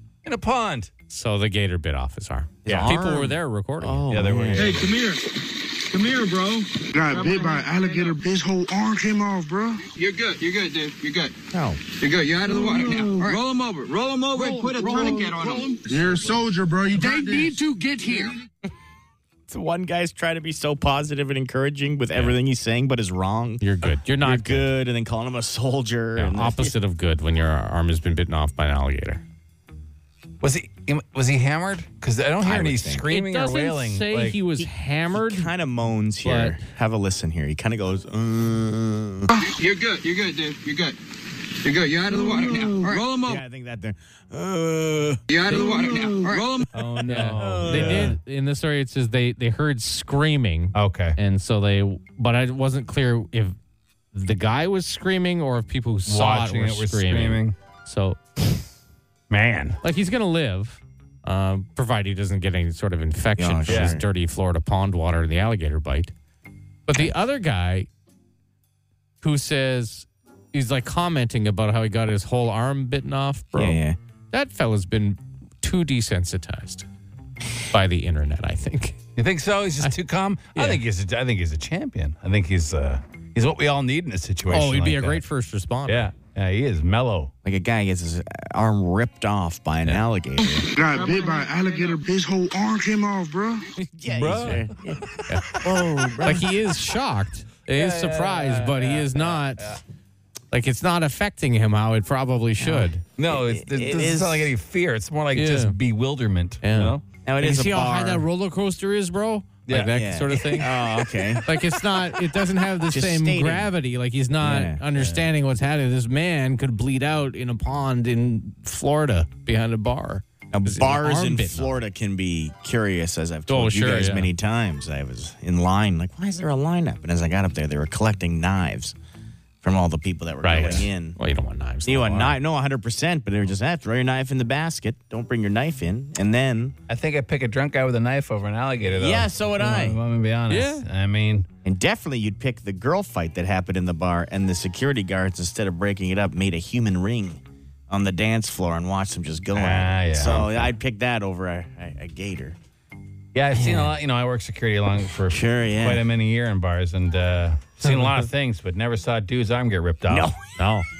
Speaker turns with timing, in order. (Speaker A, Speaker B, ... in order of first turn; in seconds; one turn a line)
Speaker A: 0.2-0.9
Speaker B: 1.1-4.1
Speaker C: 2.6-4.9
Speaker A: 2.6-2.9
Speaker A: 4.1-4.9
Speaker D: 4.6-8.2
Speaker E: 6.9-9.8
Speaker D: 9.9-11.3
Speaker C: 11.5-11.8
Speaker D: 12.0-16.2
Speaker E: 12.4-13.4
Speaker E: 14.3-17.6
Speaker D: 16.9-18.3
Speaker C: 19.5-26.7
Speaker B: 23.6-24.7
Speaker B: 26.1-29.2
Speaker A: 30.4-34.4
Speaker C: 32.4-33.0
Speaker B: 33.1-35.5
Speaker C: 34.5-39.3
Speaker B: 36.2-36.6
Speaker D: 39.6-41.0
Speaker D: 41.6-43.4
Speaker E: 42.1-43.0
Speaker C: 43.2-45.2
Speaker D: 45.3-46.7
Speaker E: 45.5-46.4
Speaker A: 46.7-48.2
Speaker B: 47.0-53.5
Speaker C: 47.1-48.2
Speaker A: 50.7-51.2
Speaker B: 54.1-58.2
Speaker A: 56.1-57.5
Speaker A: 59.3-59.8
Speaker B: 59.8-66.1
Speaker C: 63.4-64.0
Speaker A: 63.7-64.0
Speaker B: 66.8-67.9
Speaker B: 69.2-73.8
Speaker C: 73.5-74.0
Speaker B: 74.3-76.8
Speaker B: 77.7-79.0
Speaker A: 79.2-85.2
Speaker B: 80.5-80.8
Speaker B: 84.5-86.1
Speaker A: 85.9-87.3
Speaker C: 87.4-90.7
Speaker E: 90.8-93.6
Speaker D: 90.9-92.0
Speaker C: 93.8-95.0
Speaker A: 94.1-95.2
Speaker C: 95.6-96.5
Speaker B: 96.2-99.8
Speaker A: 97.7-99.8
Speaker B: 100.5-103.0
Speaker C: 102.6-104.5
Speaker A: 103.2-107.0
Speaker B: 105.3-105.8
Speaker B: 106.6-121.8
Speaker C: 107.2-108.2
Speaker A: 109.7-109.9
Speaker C: 109.9-111.5
Speaker C: 112.8-113.7
Speaker C: 114.4-114.8
Speaker A: 114.9-115.3
Speaker C: 120.5-128.9
Speaker B: 123.5-124.3
Speaker C: 129.6-131.2
Speaker B: 130.4-132.4
Speaker C: 131.8-136.8
Speaker A: 136.9-141.5
Speaker C: 138.9-140.0
Speaker B: 140.5-140.8
Speaker C: 141.6-152.6
Speaker A: 149.6-150.7
Speaker A: 153.3-160.3
Speaker C: 153.5-153.9
Speaker C: 155.3-156.1
Speaker C: 160.1-160.3
Speaker B: 160.6-160.9